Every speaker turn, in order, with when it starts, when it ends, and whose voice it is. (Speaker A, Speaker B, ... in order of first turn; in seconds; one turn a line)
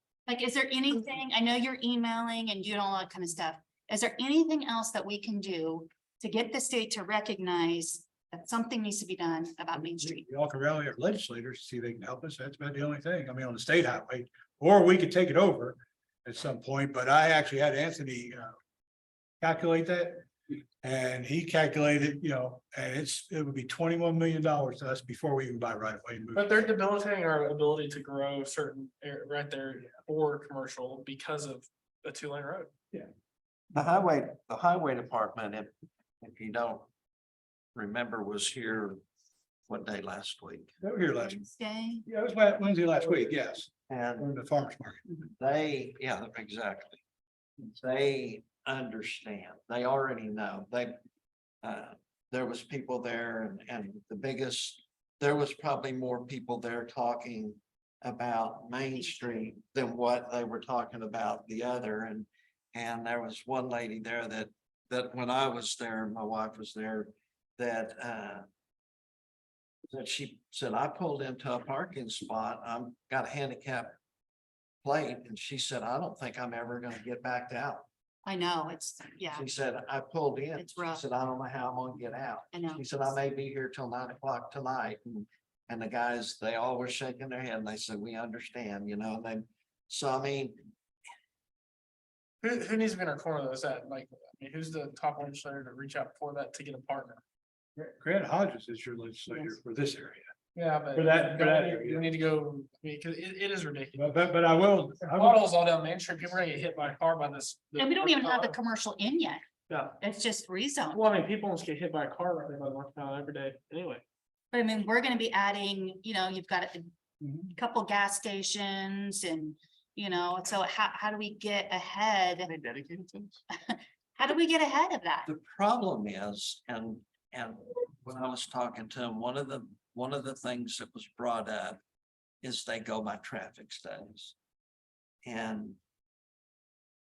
Speaker A: 0.3-10.2
Speaker B: 10.0-18.6
Speaker B: 19.4-20.3
Speaker B: 20.8-26.7
Speaker C: 26.3-32.7
Speaker D: 33.7-36.9
Speaker D: 37.7-39.0
Speaker D: 39.7-40.7
Speaker B: 40.8-41.4
Speaker A: 41.1-42.0
Speaker B: 42.0-45.0
Speaker D: 43.9-44.3
Speaker D: 45.4-47.0
Speaker D: 47.6-51.0
Speaker D: 51.6-68.5
Speaker A: 58.9-59.5
Speaker D: 69.9-74.0
Speaker D: 74.8-77.8
Speaker A: 78.2-79.5
Speaker D: 79.3-90.7
Speaker A: 80.6-81.0
Speaker A: 82.5-82.8
Speaker C: 92.4-97.2
Speaker B: 97.8-100.3
Speaker C: 100.5-104.1
Speaker B: 100.9-102.0
Speaker B: 104.0-105.4
Speaker C: 105.1-108.5
Speaker A: 107.8-109.4
Speaker C: 109.7-110.0
Speaker A: 110.0-111.0
Speaker C: 110.9-114.0
Speaker A: 114.5-116.9
Speaker B: 117.2-117.5
Speaker A: 117.5-122.5
Speaker C: 122.5-123.4
Speaker A: 123.5-125.3
Speaker D: 125.2-131.8
Speaker D: 132.4-134.3
Speaker D: 135.2-135.8